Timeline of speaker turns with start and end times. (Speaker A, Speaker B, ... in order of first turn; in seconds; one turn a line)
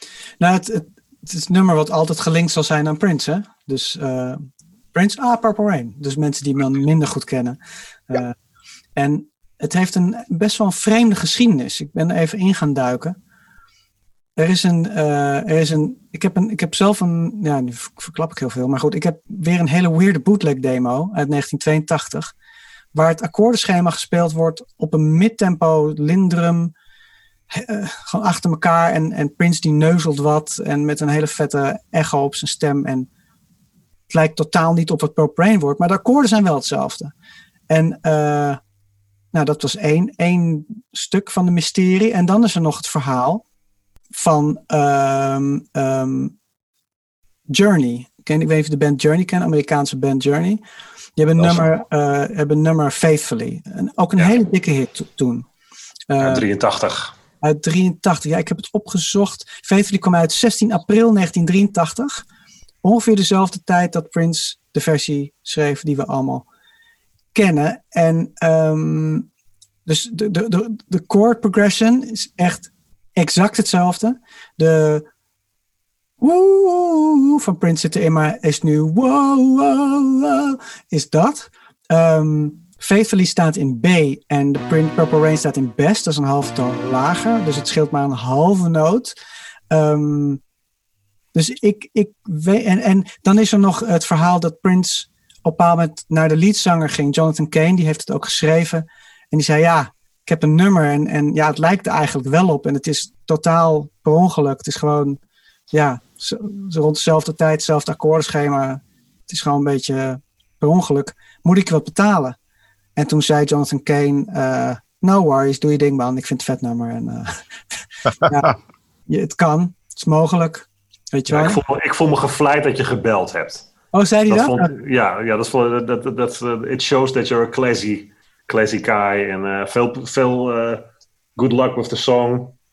Speaker A: 0.4-4.4
Speaker A: 4.9-8.4
Speaker A: 9.0-13.2
Speaker A: 14.4-22.3
Speaker A: 22.9-26.7
Speaker A: 27.5-33.1
Speaker A: 34.1-37.1
Speaker A: 37.7-38.6
Speaker A: 39.3-43.4
Speaker A: 44.1-46.3
Speaker A: 47.5-50.6
Speaker A: 51.2-55.5
Speaker B: 51.4-51.7
Speaker A: 56.1-56.5
Speaker B: 56.2-57.1
Speaker A: 57.4-62.2
Speaker A: 62.8-66.5
Speaker A: 67.3-69.3
Speaker A: 69.9-75.1
Speaker A: 76.2-89.2
Speaker A: 89.7-90.4
Speaker A: 91.3-105.2
Speaker A: 105.7-112.4
Speaker A: 113.0-117.4
Speaker A: 118.2-118.6
Speaker A: 119.1-121.6
Speaker B: 121.3-123.7
Speaker A: 123.9-124.7
Speaker B: 124.3-130.8
Speaker B: 131.4-132.6